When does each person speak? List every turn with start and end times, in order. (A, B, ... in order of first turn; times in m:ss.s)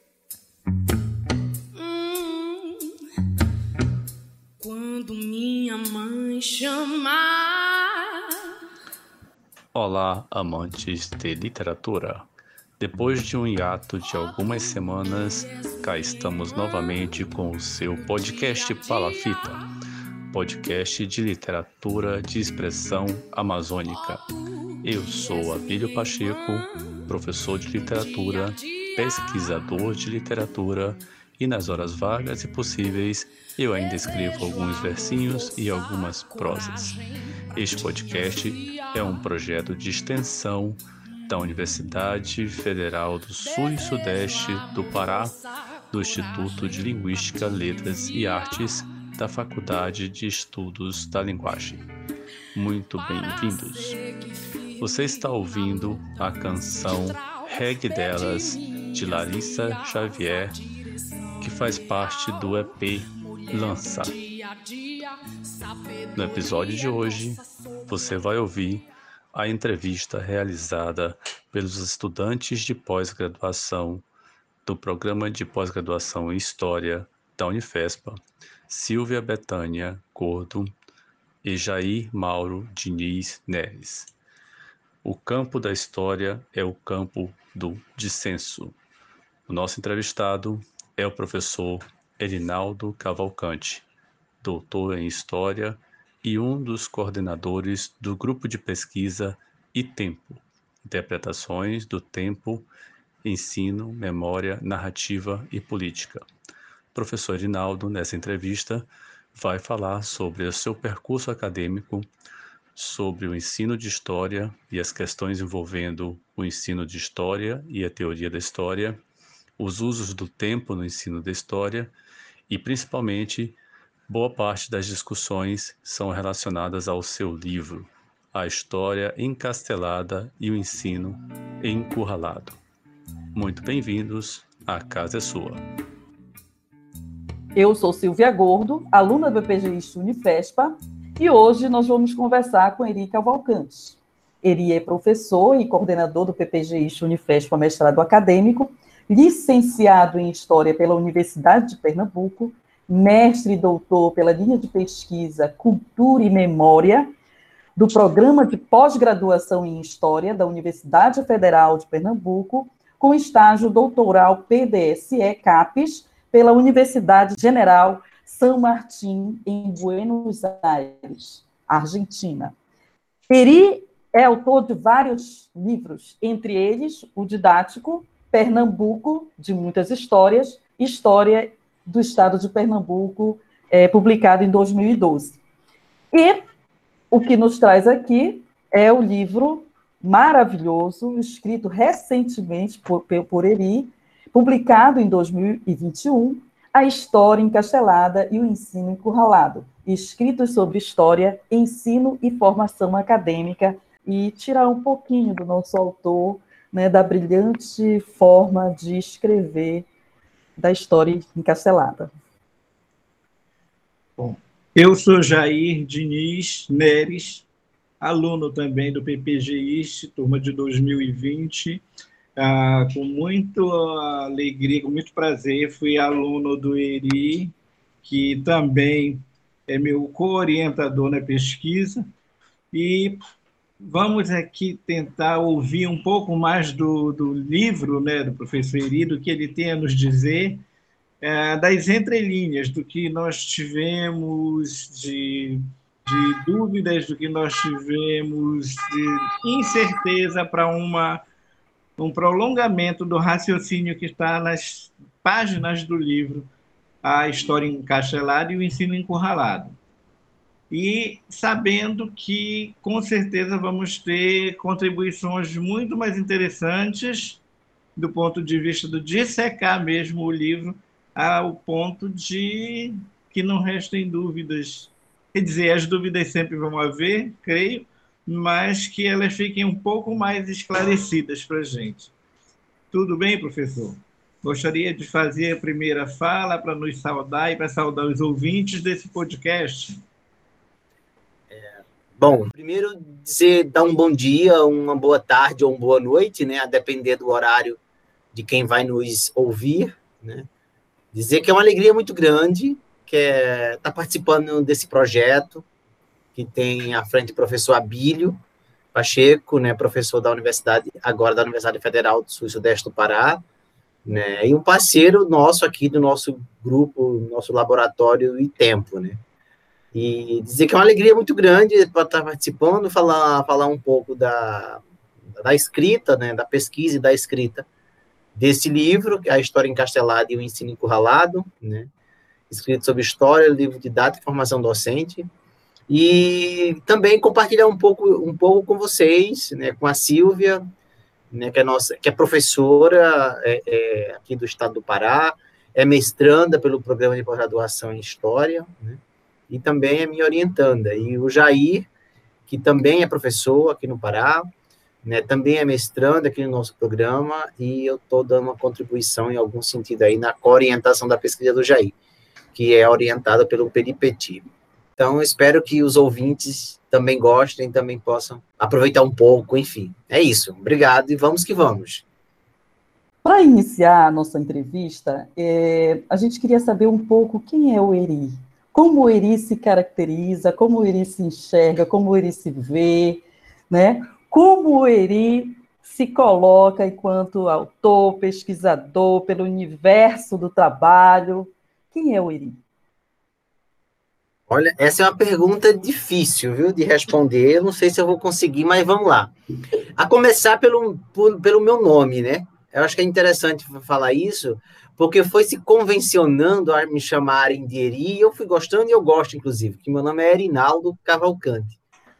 0:01.7-0:02.9 A
0:04.6-0:08.3 A
0:09.7-0:12.3 B
0:12.8-0:19.6 B
0:14.0-0:17.3 A
0:17.9-0:19.8 A
0:20.3-0:24.2 B
0:23.8-0:27.0 A
0:24.8-0:37.0 B
0:27.8-0:29.5 A
0:33.7-0:39.2 A
0:37.5-0:45.3 B
0:41.0-0:41.9 A
0:43.4-0:49.0 A
0:45.9-0:51.8 B
0:52.5-0:54.0 B
0:52.9-1:08.8 A
0:54.8-1:00.6 B
1:01.4-1:04.1 B
1:06.1-1:14.0 B
1:14.6-1:20.7 B
1:21.4-1:24.1 B
1:25.0-1:28.8 B
1:29.5-1:33.8 B
1:34.4-1:42.7 B
1:43.2-1:46.2 B
1:46.9-1:52.1 B
1:52.7-1:59.0 B
1:59.6-2:01.9 B
2:02.5-2:12.6 B
2:13.3-2:15.6 B
2:17.6-2:37.1 C
2:37.8-2:52.5 C
2:53.3-3:05.4 C
3:06.1-3:06.4 C
3:07.1-3:29.9 C
3:30.6-3:32.1 C
3:34.2-3:37.4 D
3:38.0-3:41.8 D
3:42.4-3:52.1 D
3:52.7-3:53.2 D
3:53.8-4:00.6 D
4:01.2-4:11.2 D
4:12.0-4:16.5 D
4:17.0-4:19.8 D
4:20.7-4:27.4 D
4:28.0-4:42.1 D
4:42.9-4:50.0 D
4:51.5-4:57.8 E
4:58.3-5:00.5 E
5:01.1-5:05.6 E
5:06.3-5:08.4 E
5:08.9-5:13.4 E
5:14.0-5:19.2 E
5:19.9-5:24.8 E
5:25.4-5:27.6 E
5:28.4-5:31.9 E
5:32.5-5:35.3 E
5:35.9-5:40.6 E
5:41.3-5:51.9 E
5:52.5-5:54.5 E
5:55.0-6:01.9 E
6:02.5-6:04.4 E
6:05.0-6:12.0 E
6:13.2-6:32.6 C
6:34.5-6:39.3 E
6:40.0-6:51.8 E